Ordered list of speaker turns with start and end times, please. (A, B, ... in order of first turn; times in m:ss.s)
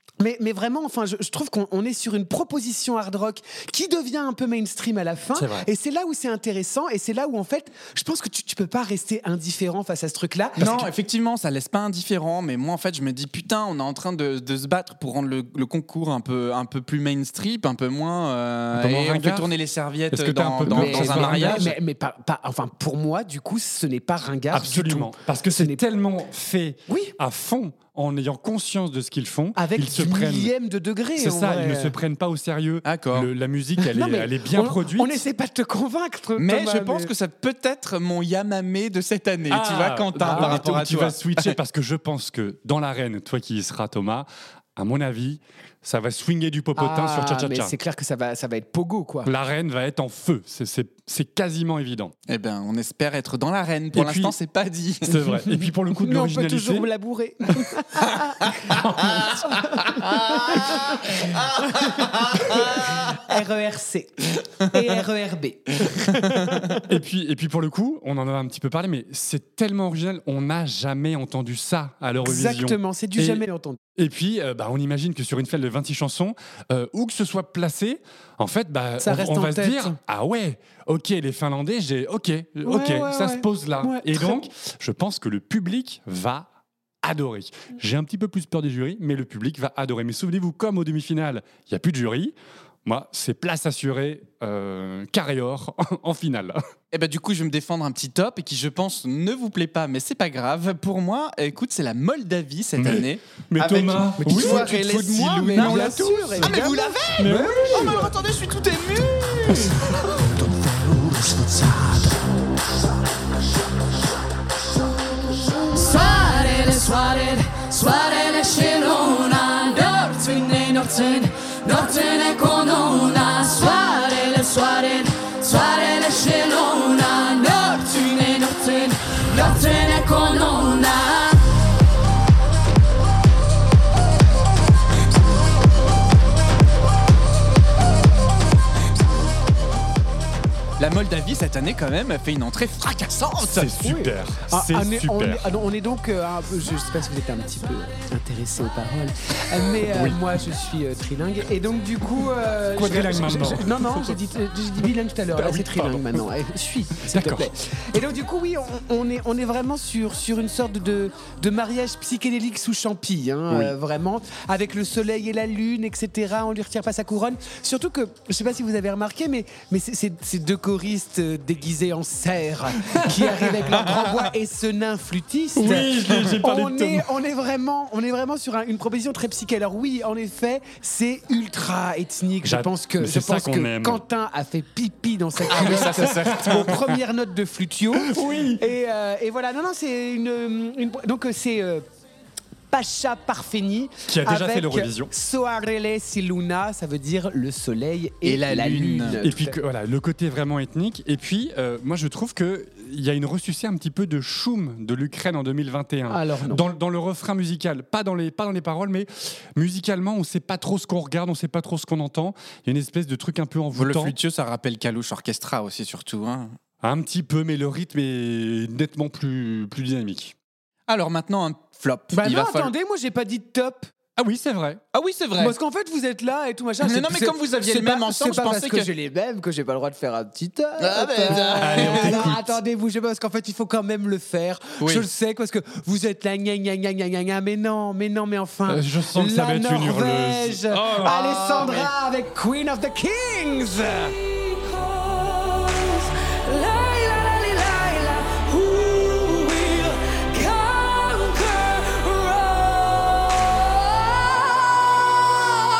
0:00.2-0:10.8 A
0:05.3-0:05.7 B
0:10.6-0:21.7 C
0:18.7-0:19.5 B
0:20.1-0:21.8 B
0:20.6-0:25.8 A
0:24.5-0:30.5 B
0:26.9-0:27.1 A
0:29.6-0:31.9 A
0:31.2-0:35.2 B
0:32.8-0:33.3 C
0:33.8-0:37.1 A
0:36.4-0:41.5 C
0:39.5-0:47.7 B
0:40.2-0:40.6 A
0:46.8-0:49.3 A
0:49.2-0:52.1 B
0:52.3-0:55.3 C
0:53.9-0:54.3 B
0:55.0-0:56.9 B
0:55.4-1:06.8 A
0:58.7-0:59.8 B
1:06.8-1:26.5 B
1:12.2-1:13.8 A
1:19.0-1:20.0 A
1:22.6-1:24.4 A
1:27.0-1:36.6 B
1:36.9-1:50.0 C
1:42.8-1:44.7 B
1:44.2-1:48.1 A
1:45.4-1:48.1 B
1:55.7-2:11.4 D
2:20.8-2:23.7 C
2:23.5-2:25.6 B
2:23.8-3:11.8 A
2:29.8-2:30.2 B
2:32.7-2:34.2 B
2:35.3-2:36.2 B
2:37.0-2:37.5 B
2:43.5-2:43.7 B
2:52.8-2:53.7 B
2:55.6-2:57.1 B
3:02.4-3:04.0 B
3:05.5-3:06.8 B
3:05.5-3:06.8 C
3:07.9-3:08.6 B
3:12.7-3:19.5 A
3:14.1-3:15.1 B
3:18.2-3:19.2 C
3:19.2-3:34.2 B
3:26.1-3:26.6 A
3:33.7-3:36.6 C
3:36.8-3:40.3 B
3:40.9-3:42.7 C
3:42.1-3:43.9 A
3:44.2-3:44.8 B
3:44.9-3:45.5 C
3:45.4-4:04.2 A
3:46.8-3:48.9 C
3:50.8-3:52.4 C
3:51.3-3:52.5 B
3:54.8-3:55.0 C
3:58.7-4:01.2 B
4:01.0-4:01.9 C
4:07.0-4:10.5 D
4:11.1-4:13.0 D